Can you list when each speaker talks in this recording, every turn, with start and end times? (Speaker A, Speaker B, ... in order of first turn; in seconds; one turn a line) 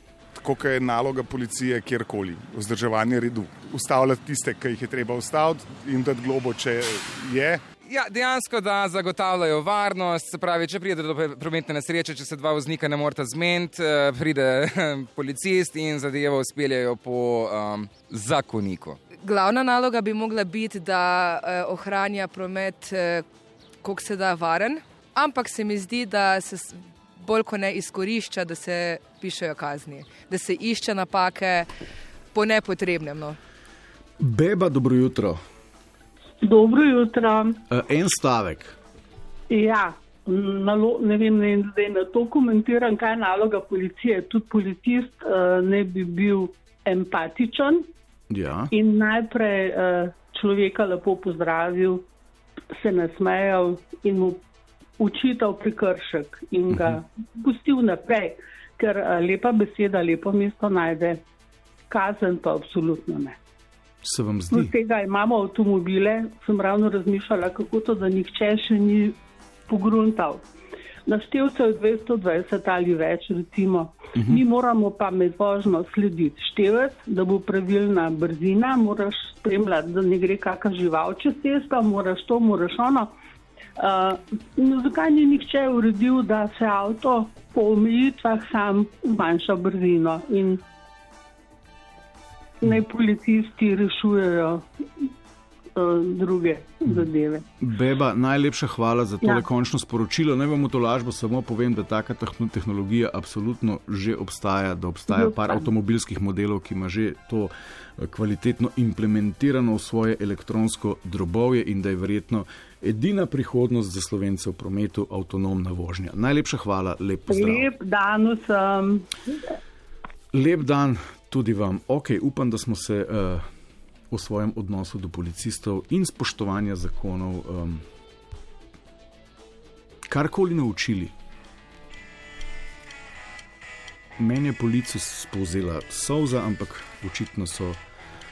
Speaker A: 0.4-7.6
Speaker B: 7.8-19.0
Speaker C: 19.2-23.2
Speaker C: 23.8-31.7
Speaker C: 32.3-33.4
Speaker D: 34.2-35.4
Speaker E: 36.4-37.6
Speaker D: 37.7-38.8
Speaker E: 39.5-47.9
Speaker D: 48.3-48.7
Speaker E: 48.7-52.0
Speaker E: 52.7-54.4
Speaker E: 55.0-61.2
Speaker D: 56.7-57.0
Speaker E: 61.9-63.4
Speaker D: 64.0-64.7
Speaker E: 64.5-70.5
Speaker E: 71.1-83.1
Speaker D: 74.2-74.4
Speaker E: 83.8-90.6
Speaker E: 92.6-94.6
Speaker E: 95.8-97.5
Speaker D: 97.6-117.7
Speaker E: 105.1-105.6
Speaker E: 117.3-119.1
Speaker D: 120.3-123.4
Speaker D: 124.1-127.8
Speaker D: 130.1-131.1
Speaker D: 134.2-137.8